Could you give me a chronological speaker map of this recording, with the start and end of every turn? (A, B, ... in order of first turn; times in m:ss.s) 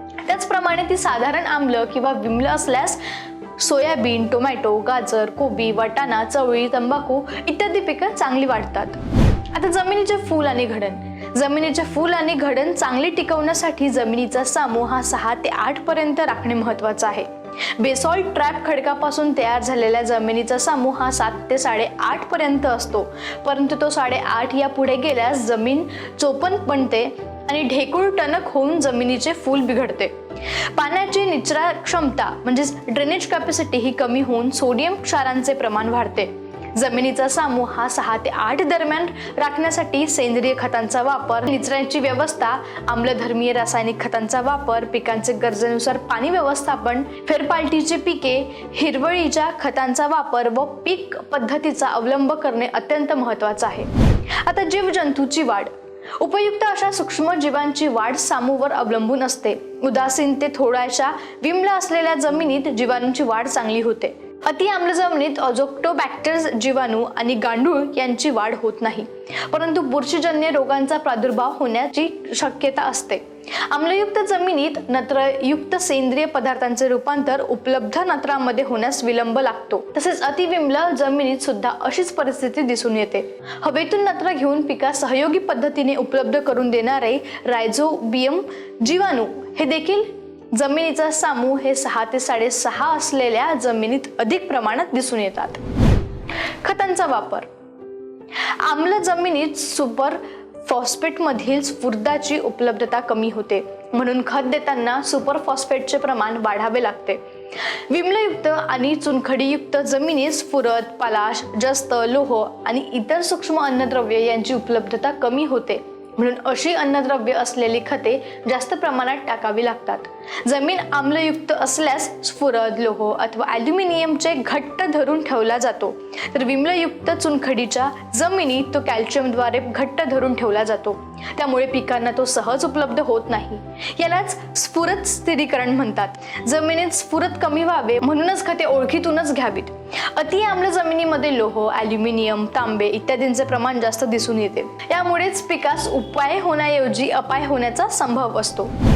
0:00.2-0:03.0 A
0:03.6-0:09.0 A
0:09.5-0:30.1 A
0:30.7-0:53.9 A
0:54.4-1:35.6 A
1:36.6-1:37.5 A
1:38.6-1:47.2 A
1:47.9-2:28.7 A